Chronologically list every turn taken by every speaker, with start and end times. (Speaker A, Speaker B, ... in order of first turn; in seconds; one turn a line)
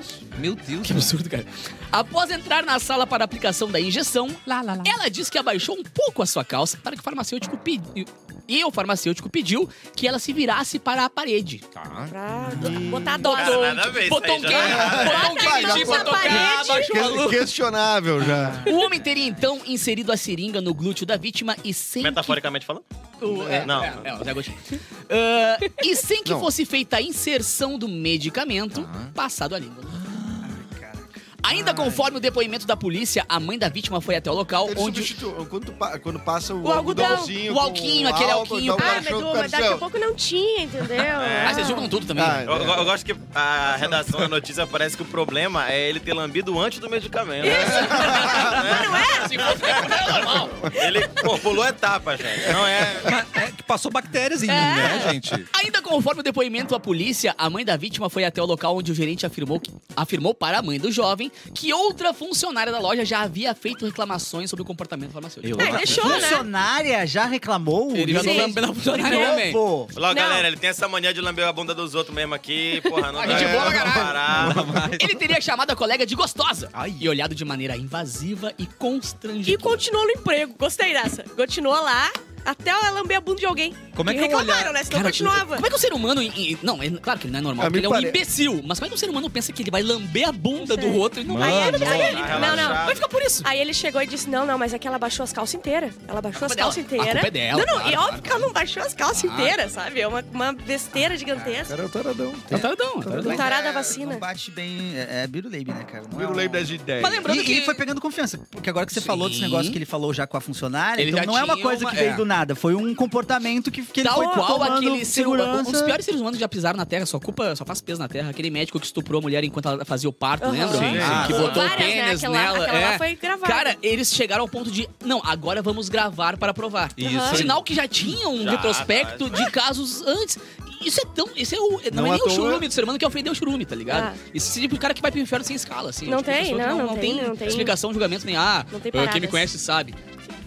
Speaker A: 0.3-1.2
Speaker B: 0.8-11.6
Speaker A: 4.5-4.9
Speaker A: 11.8-12.8
Speaker C: 12.1-13.9
Speaker D: 12.5-13.2
Speaker B: 12.7-17.5
Speaker E: 13.2-15.3
Speaker F: 14.5-18.7
Speaker C: 14.6-17.1
Speaker B: 18.5-22.4
Speaker E: 22.0-22.8
Speaker B: 23.2-30.0
Speaker F: 23.2-23.7
Speaker E: 23.6-24.1
Speaker F: 26.2-26.5
Speaker A: 28.7-29.1
Speaker A: 29.9-30.6
Speaker D: 30.4-32.1
Speaker B: 31.4-35.1
Speaker F: 34.6-39.8
Speaker C: 36.6-37.4
Speaker B: 37.3-39.0
Speaker C: 38.8-42.0
Speaker E: 41.2-41.7
Speaker B: 41.4-42.5
Speaker F: 42.1-42.9
Speaker E: 42.5-50.0
Speaker F: 43.8-44.3
Speaker C: 47.4-49.8
Speaker F: 47.5-48.6
Speaker B: 47.5-50.7
Speaker E: 50.7-53.1
Speaker C: 50.8-51.3
Speaker F: 52.5-53.1
Speaker A: 53.0-55.5
Speaker C: 54.5-55.1
Speaker B: 54.5-66.2
Speaker A: 65.4-66.3
Speaker C: 65.6-66.5
Speaker D: 65.6-69.9
Speaker B: 67.9-69.6
Speaker C: 68.1-70.5
Speaker E: 70.0-74.8
Speaker B: 73.1-79.8
Speaker F: 73.2-74.8
Speaker A: 74.3-75.2
Speaker A: 76.7-77.1
Speaker C: 79.5-85.7
Speaker A: 83.9-84.8
Speaker B: 84.9-93.5
Speaker F: 87.6-88.2
Speaker C: 90.6-101.8
Speaker A: 91.2-92.7
Speaker E: 91.8-93.0
Speaker B: 96.3-98.5
Speaker B: 99.1-99.5
Speaker F: 101.7-103.5
Speaker B: 102.5-103.4
Speaker C: 103.2-104.2
Speaker D: 103.3-106.7
Speaker F: 106.1-107.3
Speaker B: 107.0-107.8
Speaker D: 107.2-116.0
Speaker B: 108.9-109.8
Speaker B: 111.0-112.2
Speaker B: 114.0-140.0
Speaker C: 120.4-123.8
Speaker A: 120.8-121.8
Speaker D: 120.9-121.6
Speaker A: 127.0-127.6
Speaker C: 127.0-127.5
Speaker E: 128.4-129.5
Speaker F: 131.9-132.7
Speaker C: 133.9-134.2
Speaker C: 136.1-137.8
Speaker C: 138.7-139.5